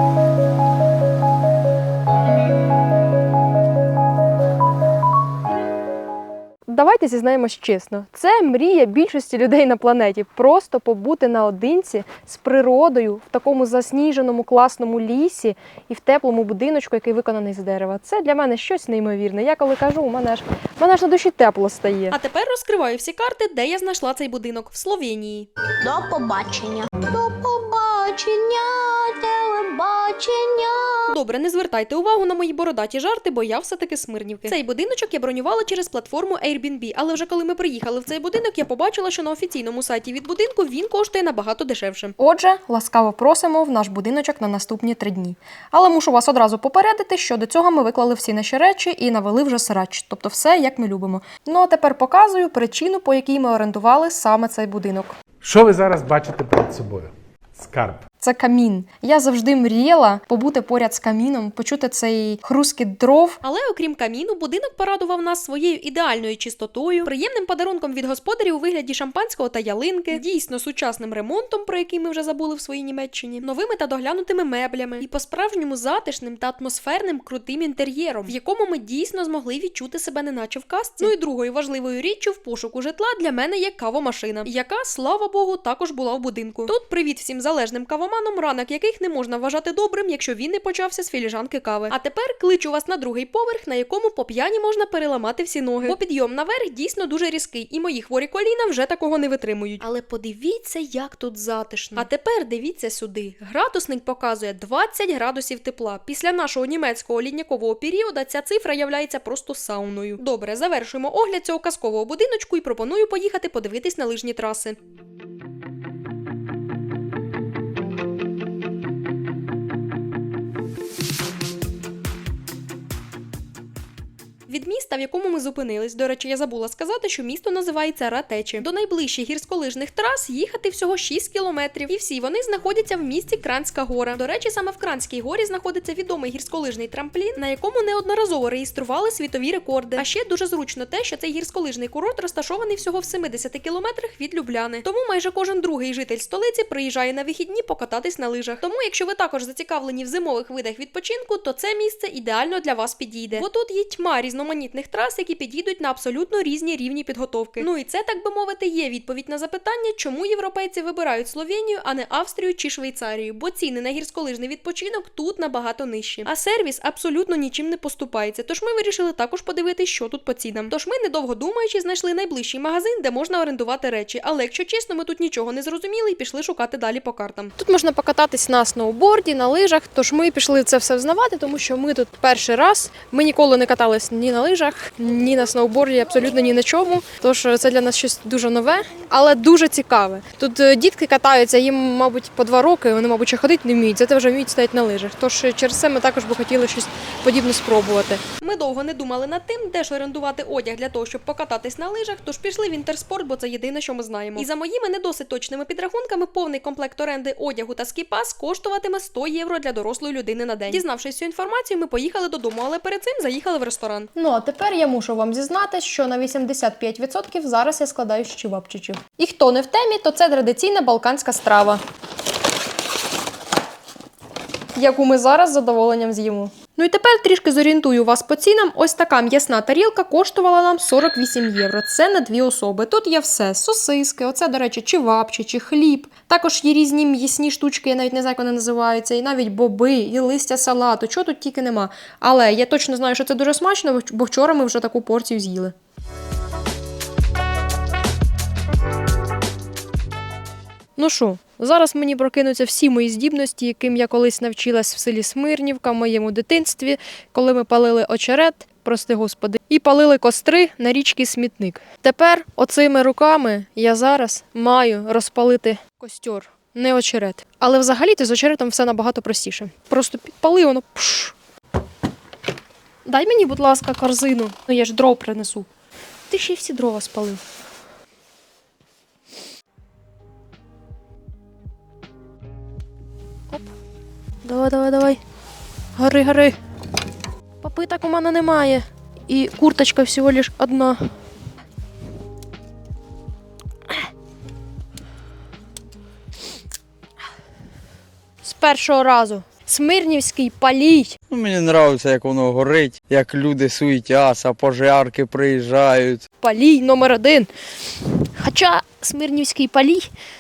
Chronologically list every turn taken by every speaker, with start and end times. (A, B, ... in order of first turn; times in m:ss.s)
0:06.7-0:22.2 A
0:22.1-0:25.5 B
0:25.8-0:31.2 C
0:31.1-0:42.2 B
0:42.2-0:55.2 A
0:55.4-0:58.0 D
0:58.2-1:03.4 A
1:03.4-1:54.8 B
1:41.0-1:42.1 A
2:04.5-2:57.5 B
2:57.6-3:18.2 A
3:18.4-3:34.1 B
3:34.2-3:41.8 A
3:44.8-4:05.8 A
4:11.0-4:31.3 A
4:33.0-4:35.7 A
4:36.3-4:37.4 A
4:44.4-4:45.2 A
4:46.0-4:46.6 A
4:47.6-4:51.0 A
4:58.4-5:01.2 A
5:01.3-5:06.2 E
5:06.4-5:07.5 A
5:08.1-5:10.1 A